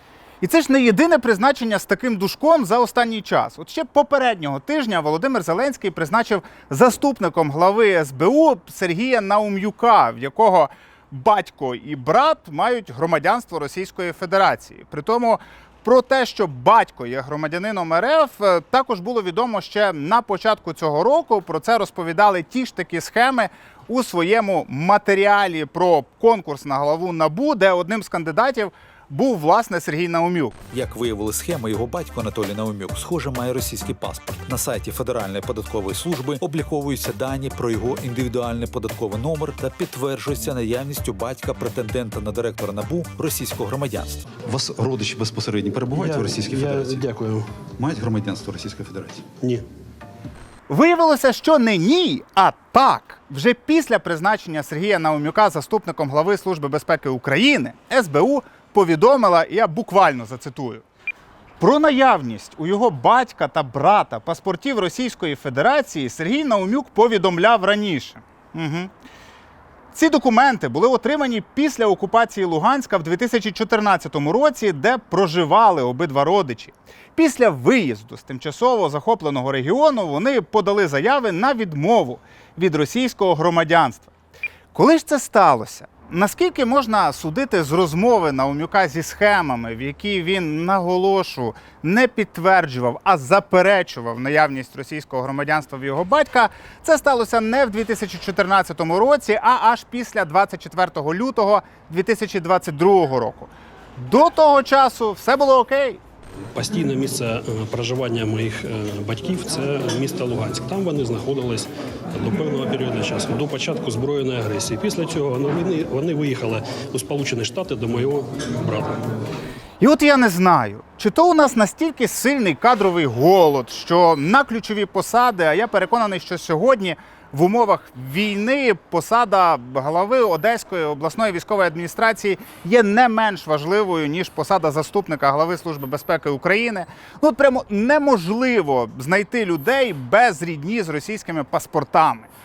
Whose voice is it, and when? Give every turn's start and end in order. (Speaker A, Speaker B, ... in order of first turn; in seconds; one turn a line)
Speaker A: 0.4-30.6
Speaker B: 30.7-44.2
Speaker C: 44.3-47.1
Speaker D: 46.0-47.5
Speaker C: 47.8-49.2
Speaker A: 50.7-60.8
Speaker A: 61.6-68.9
Speaker A: 69.9-84.1
Speaker A: 84.7-106.0
Speaker D: 106.6-119.0
Speaker A: 119.8-142.3